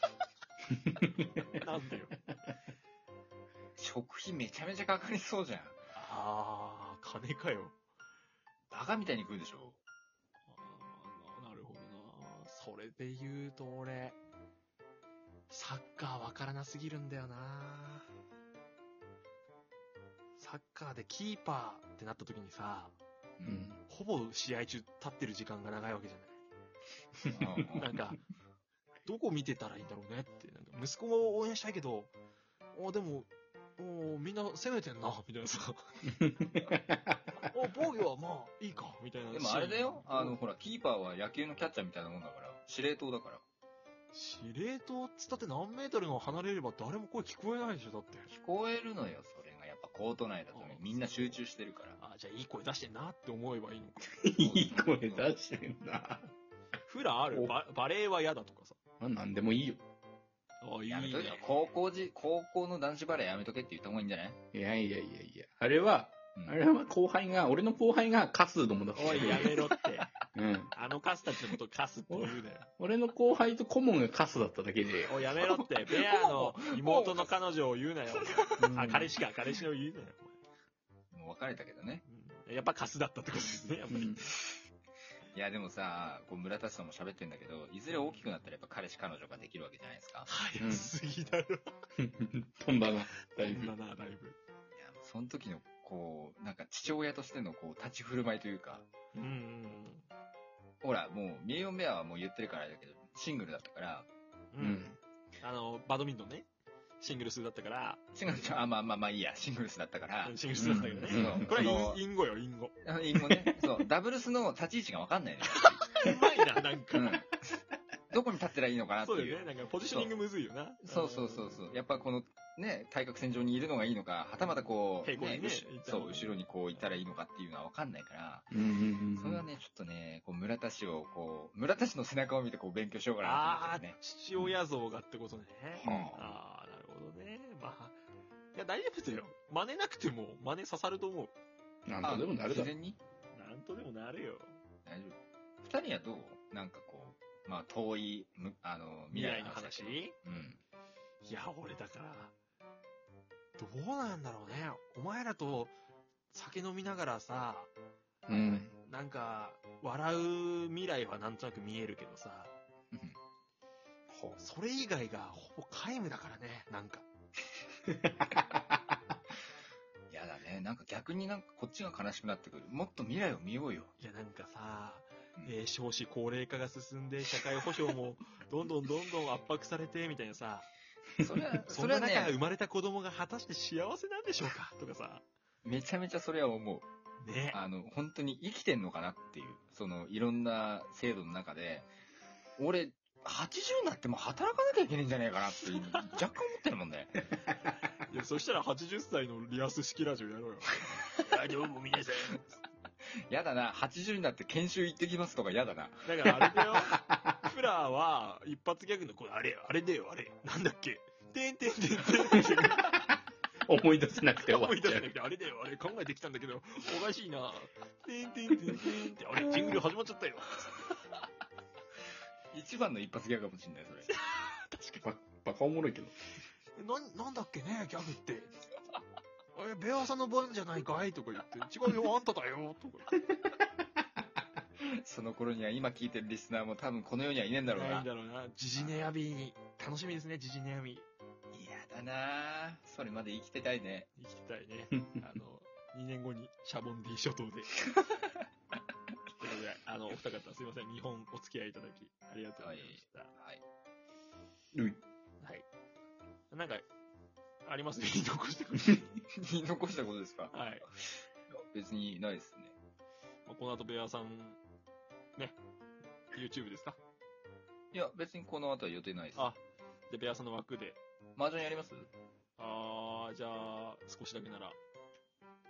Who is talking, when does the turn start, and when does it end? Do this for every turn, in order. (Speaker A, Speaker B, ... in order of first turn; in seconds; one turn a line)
Speaker A: 0.7-1.5
Speaker B: 1.5-2.1
Speaker C: 3.8-5.7
Speaker B: 5.9-7.7
Speaker C: 8.7-9.8
Speaker B: 10.5-14.2
Speaker B: 15.5-18.1
Speaker B: 20.4-22.9
Speaker C: 23.4-23.7
Speaker A: 23.4-23.8
Speaker B: 23.9-26.4
Speaker C: 27.3-28.0
Speaker A: 27.4-27.6
Speaker B: 27.8-28.2
Speaker B: 29.1-32.1
Speaker B: 32.7-36.0
Speaker A: 36.2-37.2
Speaker B: 37.5-40.4
Speaker C: 39.3-43.4
Speaker B: 44.1-48.3
Speaker C: 48.3-52.0
Speaker B: 50.5-51.4
Speaker B: 52.0-54.2
Speaker A: 54.2-56.3
Speaker C: 54.4-55.3
Speaker B: 56.9-58.8
Speaker A: 59.0-59.8
Speaker B: 60.6-61.5
Speaker C: 60.9-64.4
Speaker A: 64.5-69.7
Speaker B: 68.9-70.1
Speaker A: 70.3-70.7
Speaker B: 70.7-72.7
Speaker A: 72.1-75.6
Speaker B: 75.1-80.4
Speaker C: 76.0-77.4
Speaker C: 78.2-78.7
Speaker A: 78.6-79.1
Speaker C: 81.1-82.0
Speaker B: 82.1-84.5
Speaker A: 83.9-84.2
Speaker C: 85.3-90.3
Speaker B: 87.9-88.2
Speaker B: 90.3-91.7
Speaker A: 90.6-90.9
Speaker A: 92.0-93.7
Speaker B: 93.3-94.4
Speaker C: 94.8-98.8
Speaker B: 99.1-100.0
Speaker C: 100.8-104.1
Speaker B: 104.5-104.9
Speaker A: 104.6-105.0
Speaker B: 105.4-106.5
Speaker B: 107.0-108.6
Speaker C: 108.2-112.0
Speaker B: 110.2-113.6
Speaker A: 110.6-111.6
Speaker C: 112.8-116.1
Speaker B: 115.5-117.2
Speaker C: 116.9-117.6
Speaker C: 118.1-120.1
Speaker B: 119.0-121.6
Speaker C: 120.8-128.5
Speaker B: 125.0-127.0
Speaker A: 128.5-129.5
Speaker C: 129.2-134.4
Speaker B: 133.2-138.0
Speaker A: 135.8-136.3
Speaker C: 135.8-136.1
Speaker B: 138.5-141.3
Speaker A: 141.9-142.7
Speaker C: 142.0-143.0
Speaker B: 143.3-144.6
Speaker C: 144.8-150.6
Speaker B: 149.1-150.2
Speaker B: 151.2-152.3
Speaker B: 153.6-155.7
Speaker B: 156.3-157.7
Speaker A: 158.3-158.7
Speaker B: 158.4-162.5
Speaker A: 164.1-164.4
Speaker B: 164.4-167.0
Speaker A: 167.9-168.4
Speaker C: 170.1-173.9
Speaker B: 174.0-180.7
Speaker C: 181.2-182.4
Speaker B: 181.7-185.2
Speaker C: 185.6-186.8
Speaker B: 187.2-187.6
Speaker C: 187.5-191.9
Speaker C: 192.6-197.2
Speaker B: 198.0-202.4
Speaker C: 203.3-206.3
Speaker B: 206.0-213.0
Speaker A: 207.1-207.4
Speaker A: 213.7-215.1
Speaker B: 214.4-220.7
Speaker C: 222.5-224.1
Speaker B: 224.1-225.0
Speaker A: 225.0-226.1
Speaker B: 226.8-228.5
Speaker B: 229.5-233.1
Speaker C: 234.8-238.1
Speaker B: 237.7-241.1
Speaker C: 241.5-244.1
Speaker B: 244.2-247.8
Speaker B: 249.3-253.3
Speaker C: 252.6-253.6
Speaker A: 254.7-255.0
Speaker B: 255.4-255.7
Speaker B: 256.5-256.9
Speaker B: 257.6-259.2
Speaker C: 259.3-260.5
Speaker B: 260.5-260.9
Speaker C: 261.6-262.7
Speaker B: 263.4-264.6
Speaker B: 266.3-267.0
Speaker C: 267.9-269.5
Speaker B: 270.1-271.0
Speaker C: 271.4-272.1
Speaker B: 272.6-274.8